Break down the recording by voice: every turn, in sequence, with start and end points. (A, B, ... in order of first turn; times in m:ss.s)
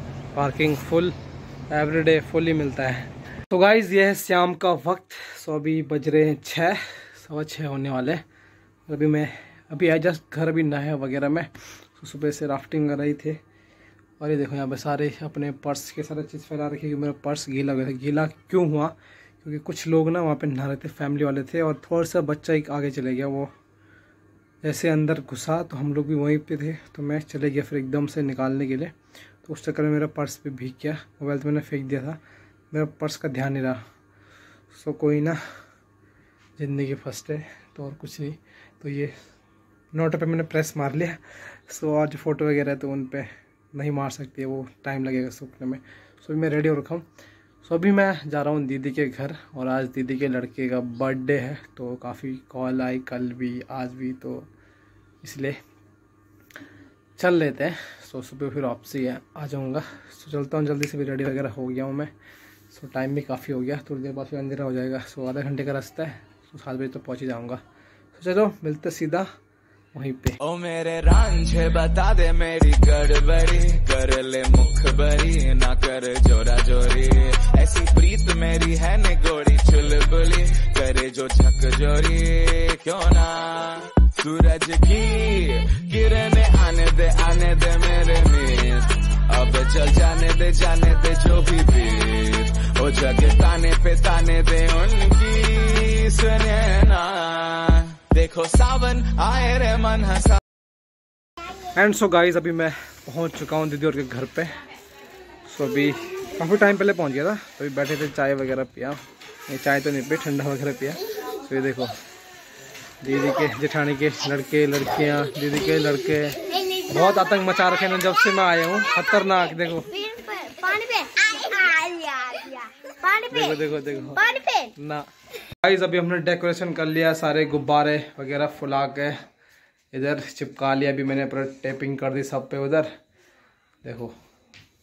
0:00.3-0:01.2 A
0:01.7-0:08.2 A
0:08.9-0:13.4 A
0:14.2-0:23.5 A
0:24.6-0:32.2 A
0:32.7-0:33.8 A
0:34.7-0:35.4 A
0:36.6-0:39.1 A
0:39.9-0:47.0 A
0:47.6-0:54.5 A
0:55.2-0:55.6 A
0:57.2-1:02.1 A
1:02.7-1:07.6 A
1:08.1-1:09.3 A
1:09.9-1:10.4 A
1:10.4-1:40.4 B
1:41.7-1:44.6 A
1:45.4-1:52.0 A
1:53.0-2:00.2 A
1:59.9-2:03.3 C
2:03.1-2:05.1 A
2:04.3-2:04.7 C
2:05.6-2:09.2 A
2:09.9-2:12.9 A
2:13.8-2:14.1 A